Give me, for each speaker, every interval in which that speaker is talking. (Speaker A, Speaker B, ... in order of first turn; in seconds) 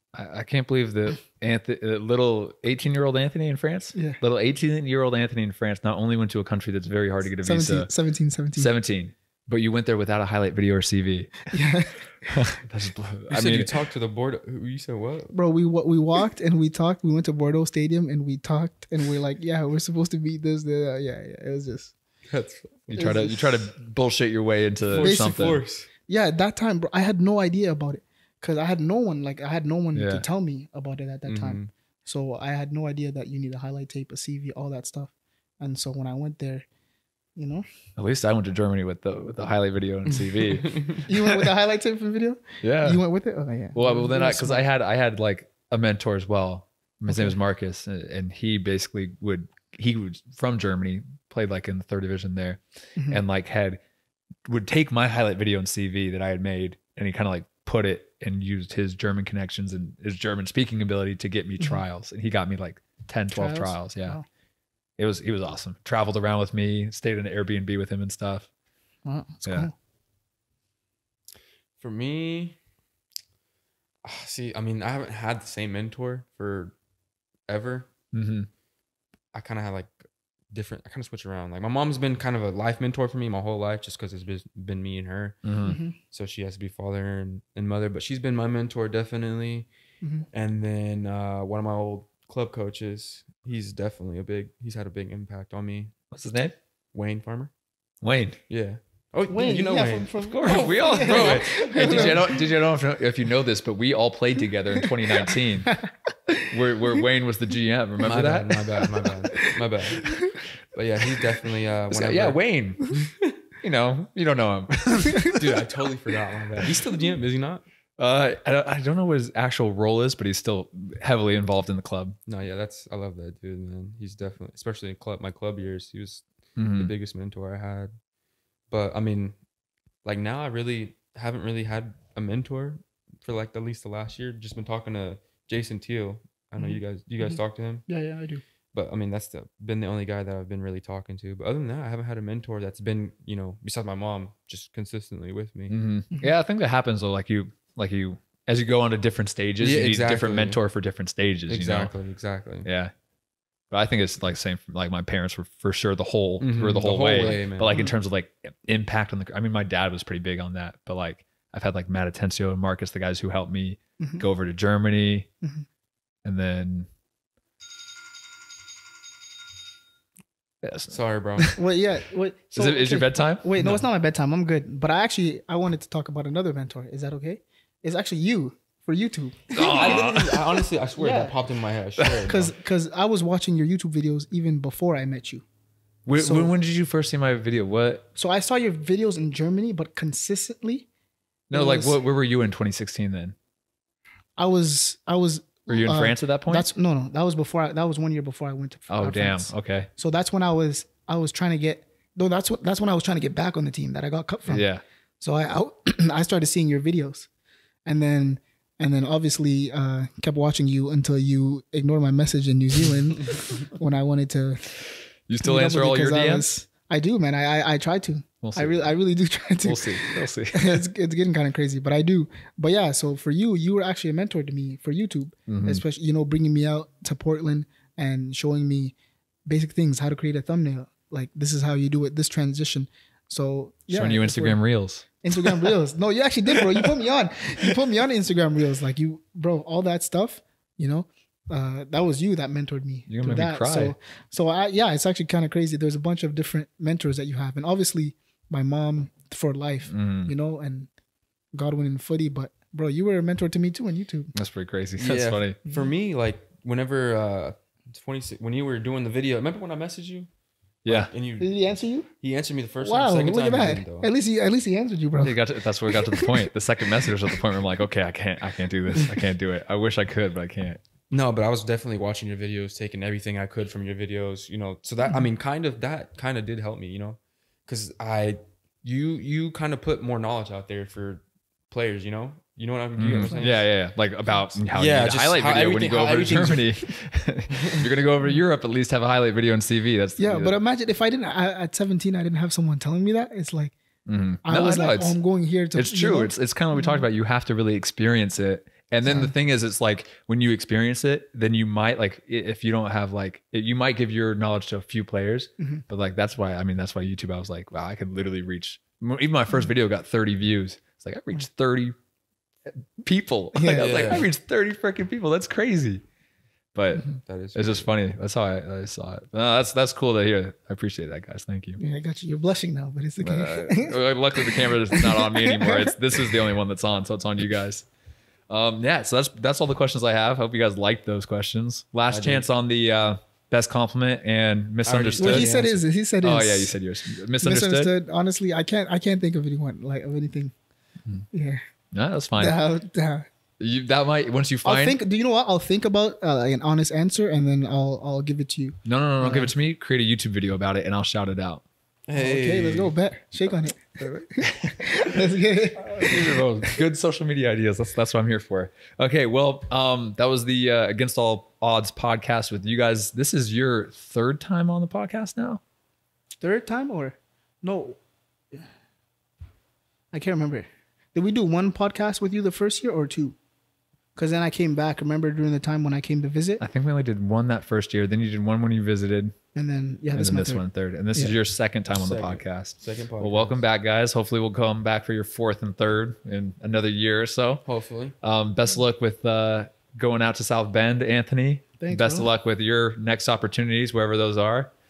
Speaker A: 0.1-7.9, 8.6-11.5, 12.3-13.7, 22.9-25.6, 29.9-30.2, 38.0-41.5, 42.6-43.0, 43.7-53.8, 54.5-64.2, 65.0-68.5, 69.4-69.7, 78.1-78.5, 85.5-85.8, 96.1-96.5, 98.0-98.4, 100.2-105.8, 106.5-108.6, 111.9-112.9, 113.6-115.6, 118.0-122.2, 126.6-126.9, 145.7-151.9, 152.6-152.9, 153.7-165.3, 166.2-166.9, 170.6-171.6, 172.5-173.8, 179.5-180.6, 186.1-188.1, 191.5-193.4, 195.7-196.7, 198.9-199.9, 204.5-204.8, 215.3-216.5, 218.4-218.8, 219.6-220.8, 225.5-225.8, 233.9-235.7, 243.1-243.9, 249.9-250.3, 254.3-255.6, 260.9-261.1, 265.2-270.8, 283.0-290.6, 294.1-295.2, 295.7-312.0, 312.7-316.0, 316.7-321.8, 323.2-327.9, 328.5-337.9, 341.9-342.6, 343.6-345.0, 348.9-351.6, 354.0-355.2, 355.8-365.6, 376.6-379.4, 380.1-387.6, 388.2-394.7
Speaker B: 7.4-8.7, 11.5-12.3, 15.3-21.9, 22.9-23.5, 24.9-25.5, 26.1-36.7, 37.4-37.6, 41.1-44.6, 47.1-47.4, 53.0-53.2, 63.3-64.2, 69.0-69.7, 85.7-86.0, 90.0-90.3, 99.3-102.4, 104.8-107.0, 109.4-110.3, 136.6-138.4, 164.0-164.2, 171.6-180.2, 181.0-181.4, 182.2-185.4, 186.2-186.5, 188.2-190.9, 191.5-192.0, 194.4-204.7, 205.2-207.3, 207.9-214.7, 215.4-228.9, 229.5-234.6, 235.2-250.9, 251.5-254.3, 261.4-262.1, 262.8-265.4, 265.9-266.5, 290.2-293.8, 294.4-297.1, 299.1-299.3, 313.6-314.2, 321.8-326.4, 335.2-336.8, 337.4-340.5, 341.3-341.6, 342.4-343.3, 344.6-349.5, 352.2-356.4, 366.4-368.0, 370.1-373.4, 374.2-376.6, 379.6-381.3, 391.8-392.3
Speaker C: 13.3-15.3, 22.3-22.8, 24.9-25.9, 31.2-31.7, 40.6-41.0, 71.8-72.6, 74.0-76.8, 77.5-77.9, 79.3-80.0, 80.5-89.7, 90.3-95.9, 96.9-97.5, 98.5-102.3, 108.0-110.1, 110.7-112.4, 115.3-117.7, 122.3-126.2, 126.8-127.9, 128.7-129.4, 130.0-137.9, 138.7-145.8, 149.6-150.6, 151.5-152.7, 156.4-157.8, 170.9-171.5, 179.6-182.5, 255.0-260.3, 260.9-261.7, 262.2-264.1, 271.1-283.7, 284.7-286.8, 287.5-287.9, 313.7-314.3, 317.3-317.9, 332.1-332.5, 334.9-335.6, 352.1-352.9, 381.9-383.6, 387.6-388.2